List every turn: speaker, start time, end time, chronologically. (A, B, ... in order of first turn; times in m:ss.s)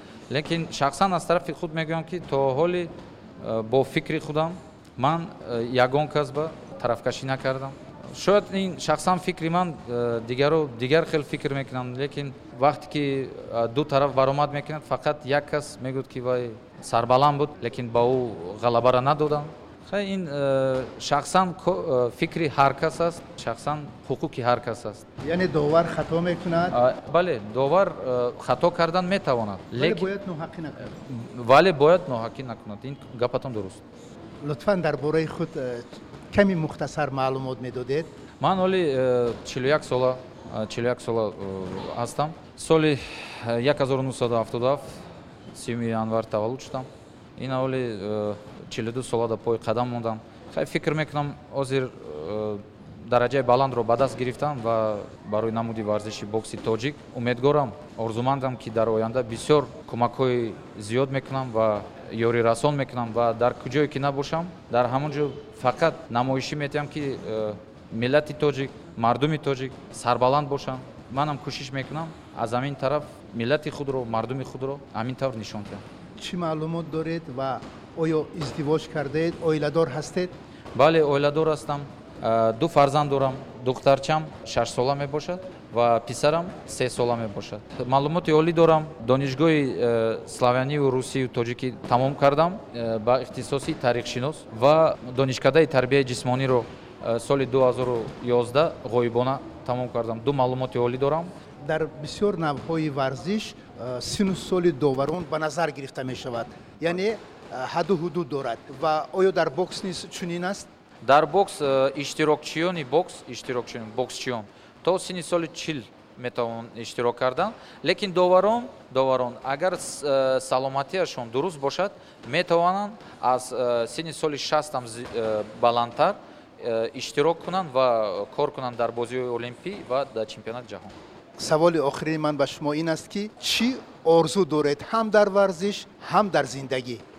0:00.3-0:25.0 A
0:25.2-0:26.8 B
0:26.7-0:30.1 A
0:29.8-0:30.9 B
0:30.9-0:33.8 A
0:34.4-0:38.1 B
0:38.4-0:45.0 A
0:45.5-1:15.8 A
1:16.2-1:20.3 B
1:20.7-1:41.3 A
1:41.6-1:50.7 B
1:51.0-2:10.9 A
2:11.4-2:17.0 B